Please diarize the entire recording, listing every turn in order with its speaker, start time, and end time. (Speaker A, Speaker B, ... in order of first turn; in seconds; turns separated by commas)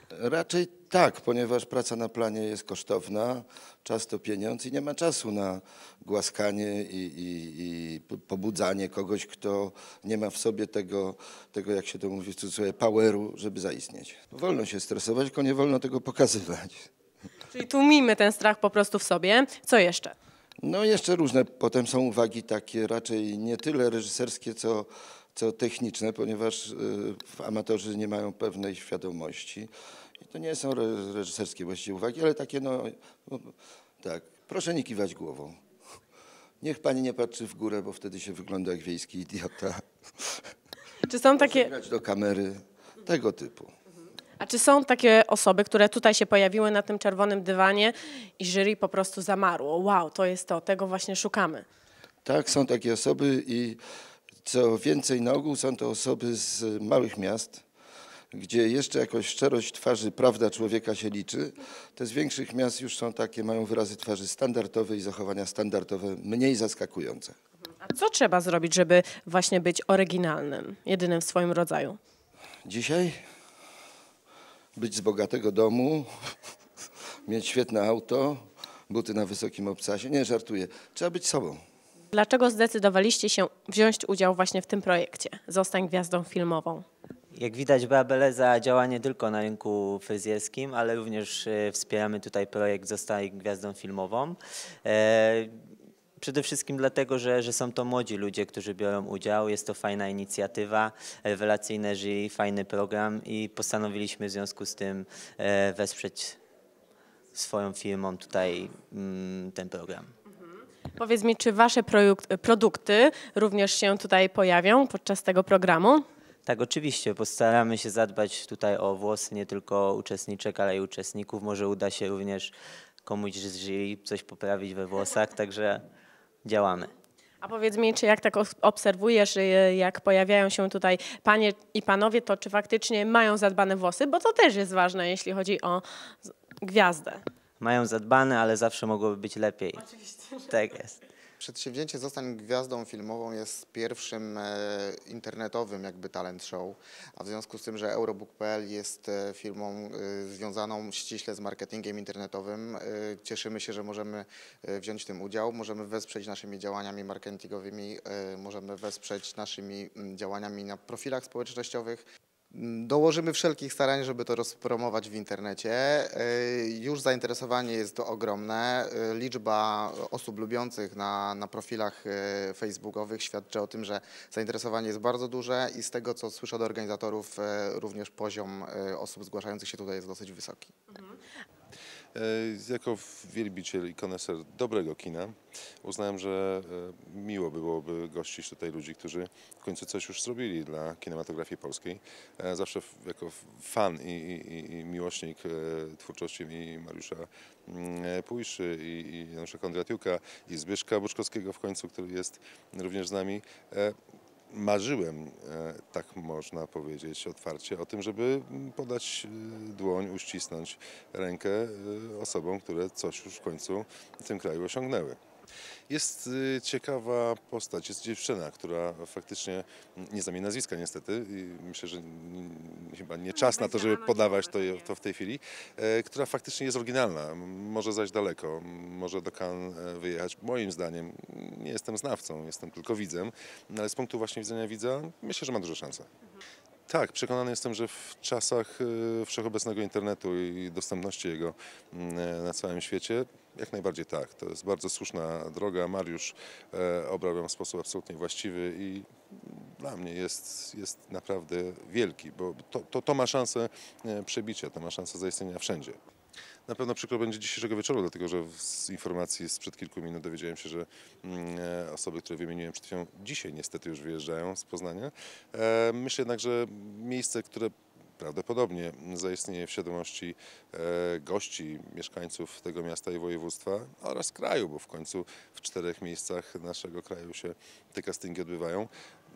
Speaker A: 0.1-16.9, Speaker B: 17.5-20.1, Speaker A: 20.6-35.6, Speaker A: 36.6-40.5, Speaker B: 41.1-41.7, Speaker A: 41.4-43.7, Speaker B: 44.4-51.6, Speaker A: 52.2-53.8, Speaker A: 54.4-57.6, Speaker A: 58.3-67.3, Speaker B: 67.8-72.0, Speaker A: 72.7-73.2, Speaker A: 74.8-76.1, Speaker A: 77.3-81.6, Speaker B: 82.1-86.8, Speaker C: 87.3-95.5, Speaker C: 96.2-106.4, Speaker C: 107.3-110.1, Speaker B: 111.0-116.0, Speaker C: 116.5-122.5, Speaker C: 123.0-125.8, Speaker C: 126.5-126.9, Speaker B: 127.4-137.2, Speaker C: 137.6-139.9, Speaker B: 139.9-140.4, Speaker C: 140.5-141.0, Speaker D: 141.4-180.7, Speaker E: 182.2-204.0, Speaker E: 204.5-215.2, Speaker E: 215.9-236.1, Speaker E: 236.9-256.0, Speaker E: 256.7-278.9